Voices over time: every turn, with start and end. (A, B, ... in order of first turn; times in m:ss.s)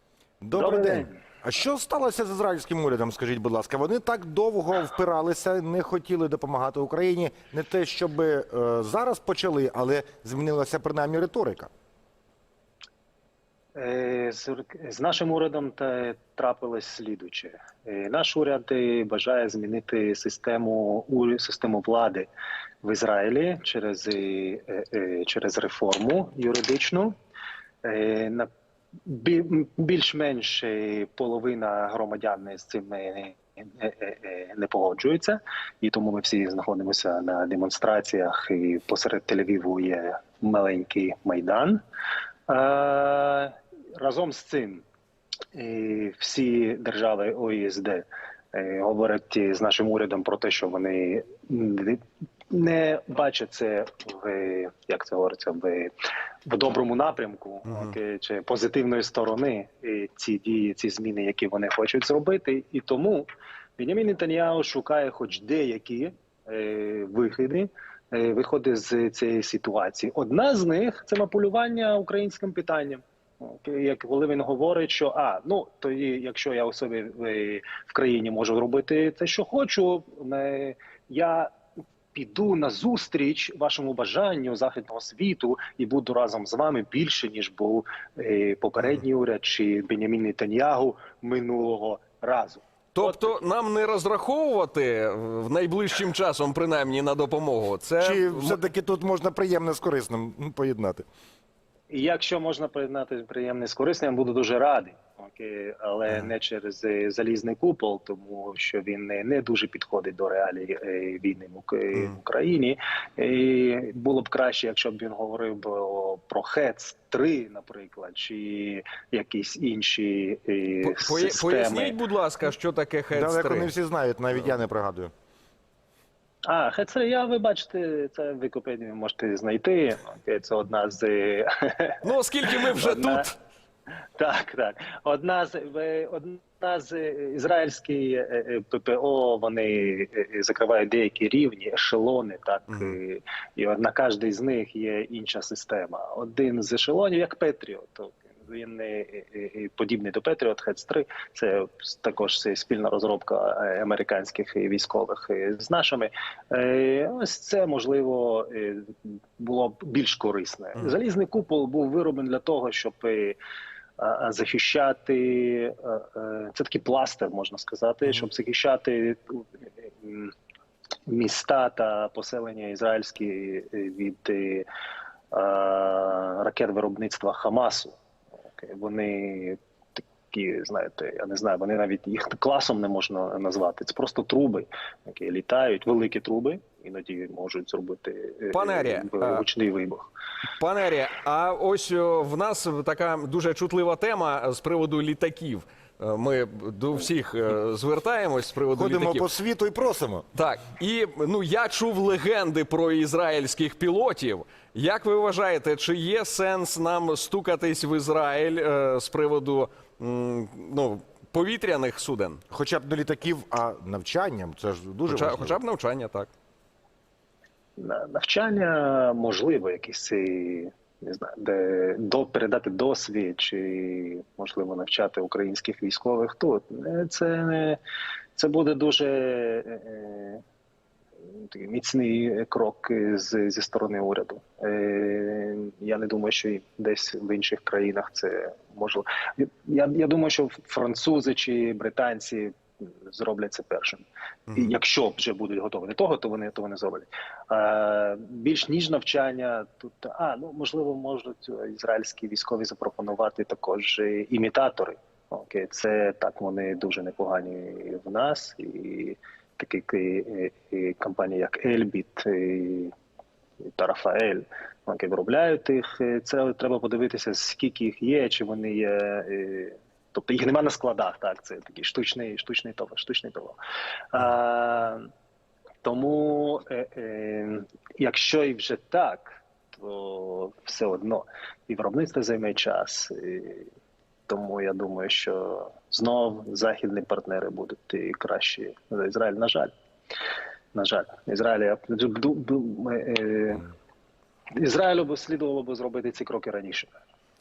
0:00.4-0:11.7 A
0:00.5-0:01.2 B
0:13.7-0:22.3 B
0:22.8-0:27.1 B
0:27.8-0:28.5 B
0:29.0-0:41.8 B
0:42.5-0:44.8 B
0:45.5-0:55.9 B
0:56.4-1:03.2 B
0:57.6-0:57.9 C
1:03.8-1:21.5 B
1:22.1-1:33.3 B
1:32.9-1:38.6 C
1:38.0-1:41.0 A
1:41.9-2:02.0 B
2:00.8-2:03.7 C
2:03.1-2:05.1 A
2:06.4-2:13.2 B
2:12.0-2:13.3 C
2:14.2-2:43.4 B
2:22.7-2:23.0 C
2:44.0-2:50.3 B
2:51.1-2:54.6 B
2:55.3-2:58.0 B
2:58.5-3:10.1 B
3:08.5-3:09.4 C
3:10.6-3:19.3 C
3:18.7-3:20.2 A
3:20.3-3:32.4 C
3:32.5-3:35.6 A
3:35.1-3:36.3 C
3:37.8-3:47.8 B
3:48.4-3:50.4 B
3:51.3-4:22.9 B
4:23.6-4:33.6 B
4:34.1-4:35.1 B
4:35.8-4:43.7 B
4:44.3-4:49.7 B
4:50.7-4:53.7 B
4:54.6-4:56.9 B